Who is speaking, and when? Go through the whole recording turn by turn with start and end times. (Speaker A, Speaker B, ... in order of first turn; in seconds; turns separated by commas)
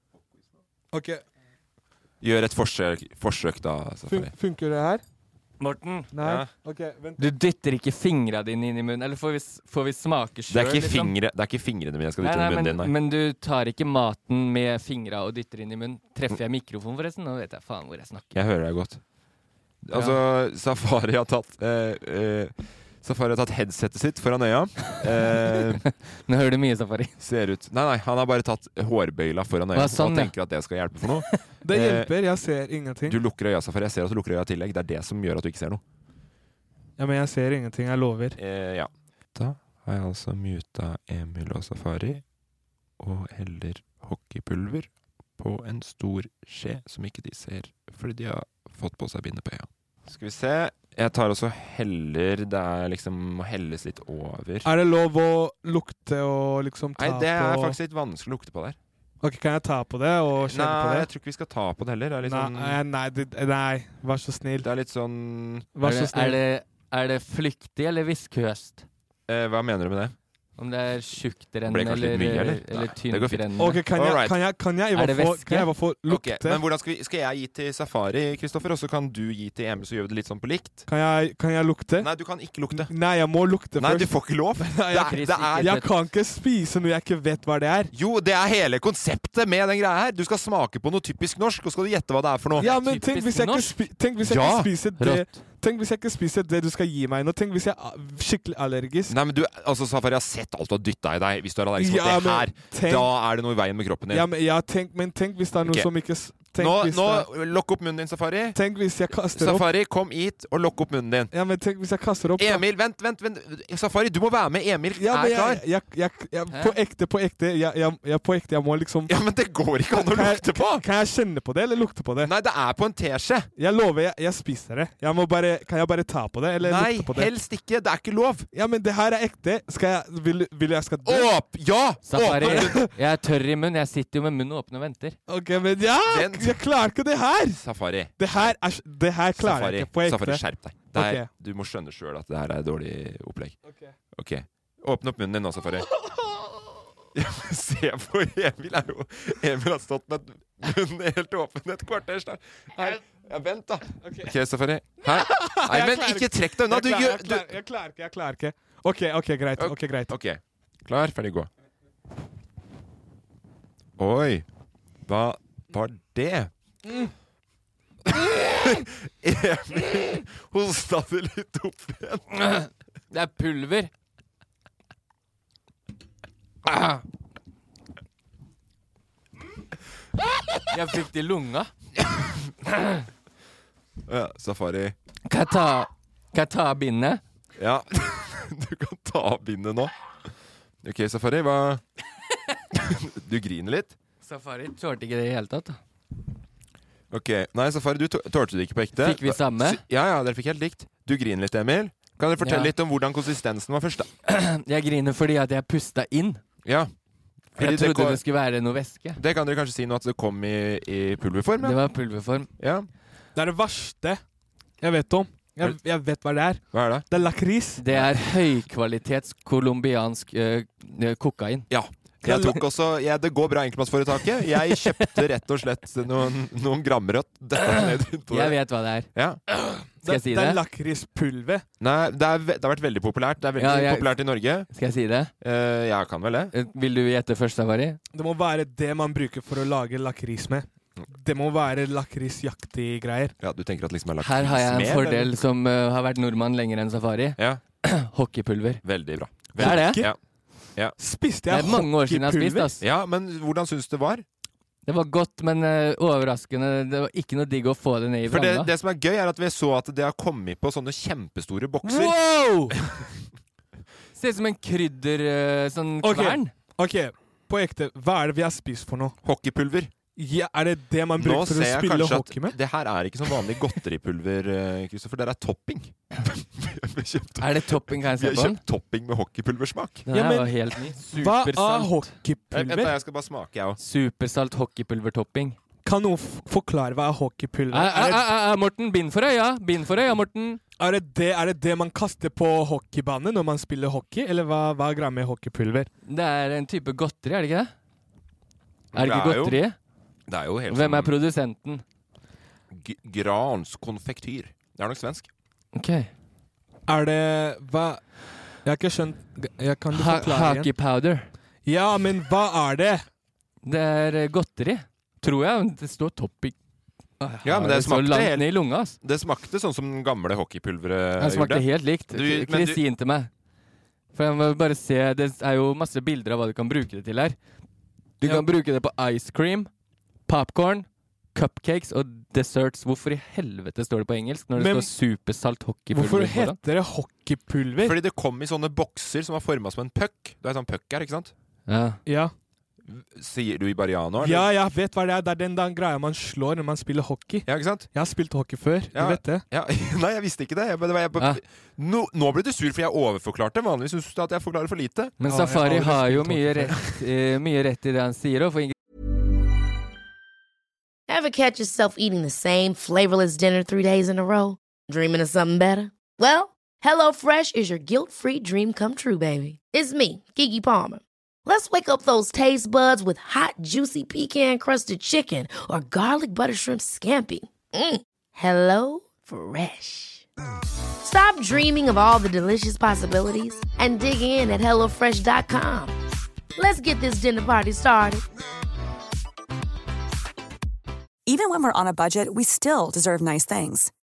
Speaker A: 0.9-1.2, Speaker B: 2.2-4.3, Speaker A: 4.1-5.0, Speaker C: 5.6-6.1, Speaker A: 6.1-7.2, Speaker B: 6.2-6.5, Speaker C: 7.2-11.1, Speaker B: 10.5-12.9, Speaker C: 12.2-18.4, Speaker B: 18.3-19.0, Speaker B: 19.8-25.9, Speaker C: 19.9-20.2, Speaker C: 26.2-27.1, Speaker B: 27.2-32.1, Speaker C: 29.8-30.3, Speaker A: 31.6-33.2, Speaker B: 33.1-35.8, Speaker A: 37.0-38.4, Speaker B: 38.4-42.2, Speaker B: 43.0-54.7, Speaker A: 54.6-57.8, Speaker B: 57.0-58.8, Speaker A: 59.2-61.1, Speaker B: 60.4-62.8, Speaker A: 62.2-64.7, Speaker B: 64.6-65.7, Speaker A: 65.8-66.4, Speaker C: 65.8-68.8, Speaker B: 69.3-70.2, Speaker C: 70.6-73.8, Speaker B: 71.7-74.3, Speaker A: 73.6-76.6, Speaker C: 74.9-75.7, Speaker B: 76.1-80.8, Speaker A: 80.9-82.1, Speaker B: 82.0-82.9, Speaker A: 82.7-87.9, Speaker B: 83.8-85.8, Speaker C: 85.0-85.9, Speaker B: 87.9-92.7, Speaker C: 92.6-93.8, Speaker A: 92.6-99.2, Speaker B: 94.2-94.7, Speaker C: 95.0-95.3, Speaker B: 99.1-104.3, Speaker A: 101.8-103.1, Speaker A: 104.1-107.3, Speaker B: 105.6-105.9, Speaker B: 106.6-108.6, Speaker A: 108.5-109.7, Speaker B: 109.3-111.3, Speaker A: 111.3-112.6, Speaker B: 112.4-115.6, Speaker A: 115.0-119.1, Speaker B: 119.1-120.8, Speaker A: 119.9-122.3, Speaker B: 122.2-123.5, Speaker A: 123.6-127.3, Speaker B: 126.6-128.5, Speaker A: 128.5-131.3, Speaker B: 131.0-132.8, Speaker C: 132.1-135.2, Speaker A: 132.4-132.9, Speaker A: 135.3-137.6, Speaker B: 136.1-136.6, Speaker B: 137.5-138.4, Speaker A: 138.2-141.3, Speaker B: 139.4-143.6, Speaker A: 143.7-143.9, Speaker B: 144.2-145.9, Speaker B: 147.2-157.5, Speaker A: 154.0-154.3, Speaker A: 155.0-160.1, Speaker B: 159.6-161.5, Speaker B: 164.0-164.5, Speaker B: 165.1-166.5, Speaker A: 166.8-167.1, Speaker B: 168.1-172.3, Speaker C: 172.4-173.9, Speaker C: 180.7-181.7, Speaker B: 184.1-184.9, Speaker C: 185.3-187.2, Speaker B: 187.6-189.9, Speaker B: 190.8-191.8, Speaker B: 192.7-193.9, Speaker C: 194.2-195.8, Speaker B: 197.1-204.1, Speaker C: 199.0-199.8, Speaker C: 202.4-202.7, Speaker C: 204.3-206.4, Speaker B: 206.7-206.9, Speaker B: 207.6-208.2, Speaker C: 207.6-209.2, Speaker B: 209.2-211.8, Speaker C: 211.6-212.5, Speaker B: 212.6-212.9, Speaker A: 213.3-214.2, Speaker A: 214.8-217.8, Speaker B: 216.7-217.1, Speaker C: 217.8-221.7, Speaker B: 221.7-228.6, Speaker C: 222.2-222.6, Speaker C: 224.7-225.1, Speaker C: 227.6-229.1, Speaker B: 229.1-229.4, Speaker A: 229.7-231.7, Speaker C: 230.1-230.6, Speaker B: 231.8-234.7, Speaker C: 233.6-234.1, Speaker C: 234.7-235.3, Speaker B: 235.4-236.5, Speaker C: 236.5-238.0, Speaker A: 238.1-243.4, Speaker B: 243.4-245.3, Speaker C: 244.2-248.8, Speaker B: 248.8-250.2, Speaker C: 249.6-250.1, Speaker A: 249.6-250.1, Speaker A: 251.0-252.7, Speaker C: 251.5-252.8, Speaker B: 252.8-254.2, Speaker C: 254.8-258.7, Speaker B: 258.3-262.2, Speaker C: 261.8-262.8, Speaker B: 262.7-263.1, Speaker C: 264.2-266.5, Speaker A: 266.0-269.2, Speaker B: 269.2-269.9, Speaker A: 270.2-272.6, Speaker B: 271.2-280.1, Speaker C: 277.4-278.6, Speaker C: 280.1-282.1, Speaker A: 280.1-282.9, Speaker B: 282.5-283.8, Speaker C: 283.8-285.6, Speaker A: 285.8-288.3, Speaker C: 287.7-290.6, Speaker A: 290.8-295.9, Speaker C: 296.1-297.7, Speaker B: 298.9-299.6, Speaker C: 298.9-299.8, Speaker B: 300.3-301.1, Speaker C: 300.7-301.8, Speaker B: 302.7-305.3, Speaker C: 305.7-306.1, Speaker A: 306.9-308.0, Speaker A: 308.6-310.7, Speaker C: 309.9-311.3, Speaker A: 311.7-313.1, Speaker C: 313.6-316.6, Speaker C: 317.2-319.0, Speaker B: 317.4-322.8, Speaker C: 321.2-323.3, Speaker C: 324.1-327.4, Speaker C: 328.2-329.7, Speaker C: 330.3-336.6, Speaker A: 334.6-334.9, Speaker A: 335.9-338.0, Speaker B: 337.8-341.3, Speaker C: 341.7-342.0, Speaker A: 342.1-342.3, Speaker B: 342.9-344.5, Speaker A: 344.2-349.4, Speaker B: 347.5-347.9, Speaker B: 348.9-355.1, Speaker C: 355.2-358.7, Speaker A: 355.3-356.7, Speaker D: 361.1-380.2, Speaker D: 381.0-385.9, Speaker D: 386.6-388.2, Speaker E: 391.3-393.9